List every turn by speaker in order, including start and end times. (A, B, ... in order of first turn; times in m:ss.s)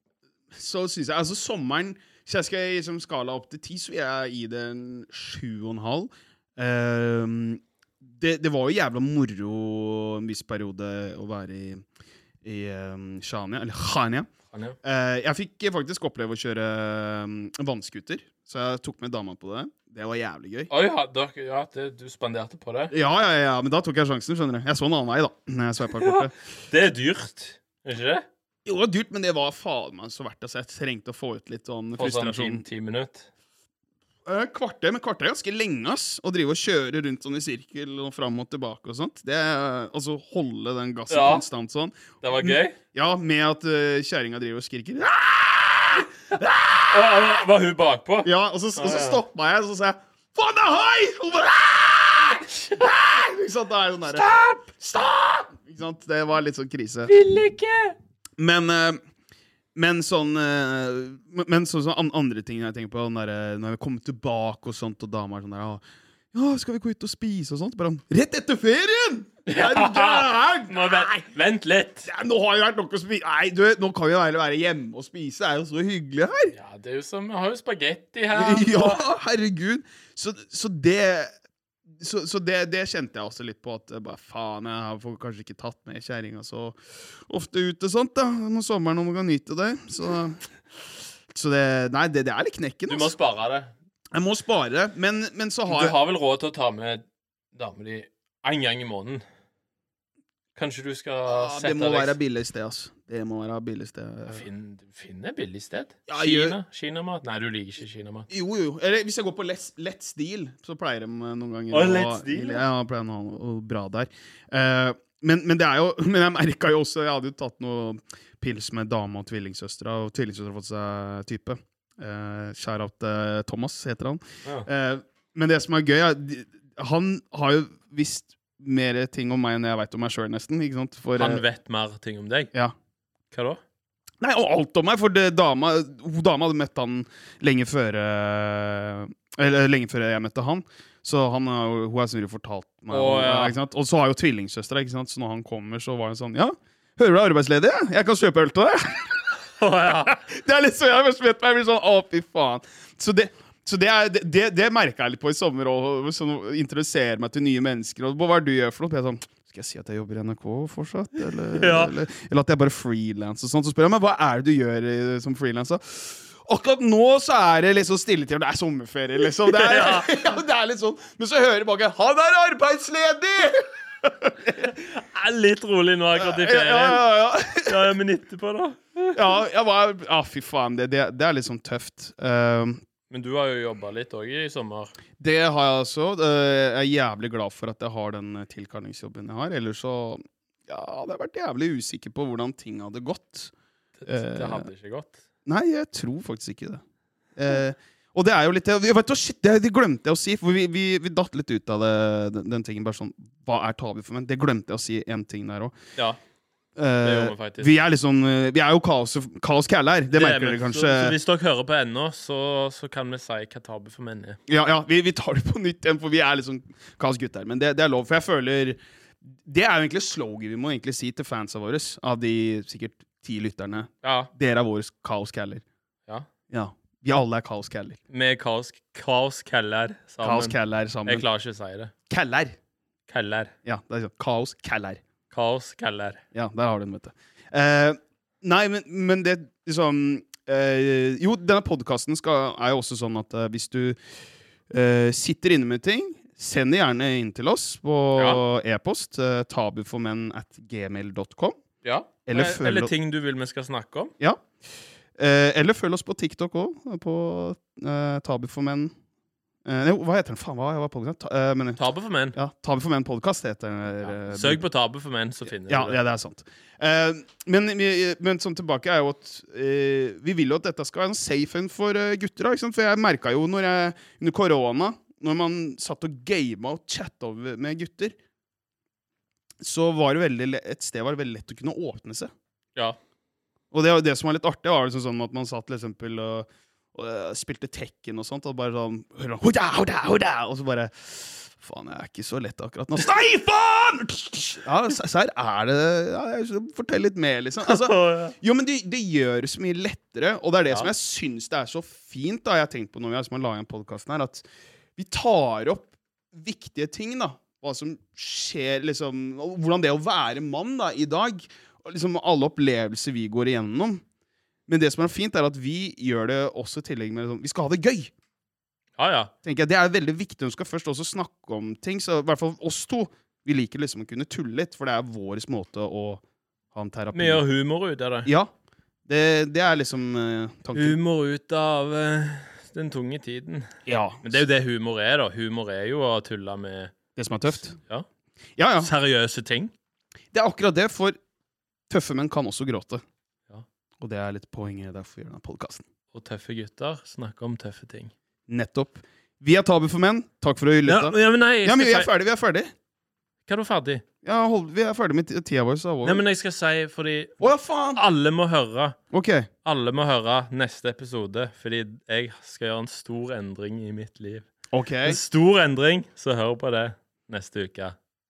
0:00.5-0:11.8 A
0:12.4-0:14.3 A
0:14.5-0:14.8 B
0:14.8-0:20.7 A
0:20.7-0:22.9 B
0:22.9-0:26.3 A
0:26.0-0:28.2 B
0:28.6-0:32.6 A
0:32.0-0:33.3 B
0:34.2-0:47.4 A
0:41.1-0:41.4 B
0:42.2-0:42.8 B
0:46.9-0:49.2 B
0:48.2-0:57.1 A
0:52.5-0:52.8 B
0:54.1-0:54.6 B
0:57.1-0:58.0 B
0:58.4-0:59.0 A
0:59.8-1:05.8 A
1:06.3-1:11.2 A
1:09.5-1:12.1 B
1:12.1-1:16.5 A
1:16.5-1:19.0 B
1:18.3-1:21.3 A
1:21.9-1:30.4 A
1:31.3-1:33.1 A
1:32.9-1:33.7 B
1:34.1-1:36.0 A
1:35.7-1:39.2 B
1:40.6-1:42.2 B
1:41.3-1:44.5 A
1:44.3-1:48.3 B
1:46.1-1:46.6 A
1:48.3-2:11.4 A
1:51.7-1:52.6 B
2:11.2-2:12.5 B
2:13.3-2:13.6 B
2:14.2-2:29.2 A
2:22.9-2:23.6 B
2:29.5-2:30.2 B
2:30.1-2:54.8 A
2:41.5-2:42.0 B
2:49.4-2:50.1 B
2:54.6-2:57.0 B
2:56.2-2:58.0 A
2:57.6-2:59.2 B
2:59.2-3:02.8 A
3:03.1-3:04.9 B
3:05.2-3:13.5 A
3:14.0-3:15.2 B
3:14.1-3:14.7 A
3:15.5-3:16.8 A
3:17.4-3:25.8 A
3:26.8-3:31.2 A
3:27.0-3:27.7 B
3:30.1-3:34.4 B
3:34.5-3:38.8 A
3:39.4-3:45.6 A
3:44.0-3:44.3 B
3:46.5-3:48.0 A
3:48.1-3:51.9 B
3:50.2-3:51.2 A
3:52.1-3:52.6 A
3:53.1-3:53.5 B
3:53.6-3:55.0 A
3:55.3-3:56.2 B
3:56.3-4:04.0 A
4:04.7-4:11.6 A
4:08.2-4:08.4 B
4:11.8-4:14.1 B
4:12.3-4:12.9 A
4:14.2-4:14.5 A
4:15.2-4:18.9 A
4:19.6-4:21.8 A
4:21.8-4:22.4 B
4:22.3-4:24.6 A
4:24.0-4:26.0 B
4:25.6-4:38.2 A
4:39.6-4:42.3 A
4:43.7-5:14.0 A
4:57.6-4:58.3 B
5:14.7-5:18.1 A
5:19.0-5:19.3 B
5:19.4-5:27.4 A
5:27.1-5:28.3 B
5:28.3-5:28.5 A
5:29.1-5:31.0 A
5:30.7-5:37.0 B
5:33.9-5:34.4 A
5:37.2-5:37.8 A
5:37.5-5:38.1 B
5:38.6-5:38.9 A
5:38.8-5:39.7 B
5:40.3-5:41.2 A
5:41.9-5:43.0 A
5:44.0-5:45.8 A
5:46.1-5:48.1 B
5:48.5-5:52.7 A
5:50.9-5:52.1 B
5:53.5-5:54.0 B
5:54.2-5:56.2 A
5:56.0-5:57.4 B
5:57.4-5:58.0 A
5:58.0-5:59.0 B
5:59.1-5:59.5 A
5:59.6-6:04.5 B
6:04.7-6:05.2 A
6:05.0-6:08.0 B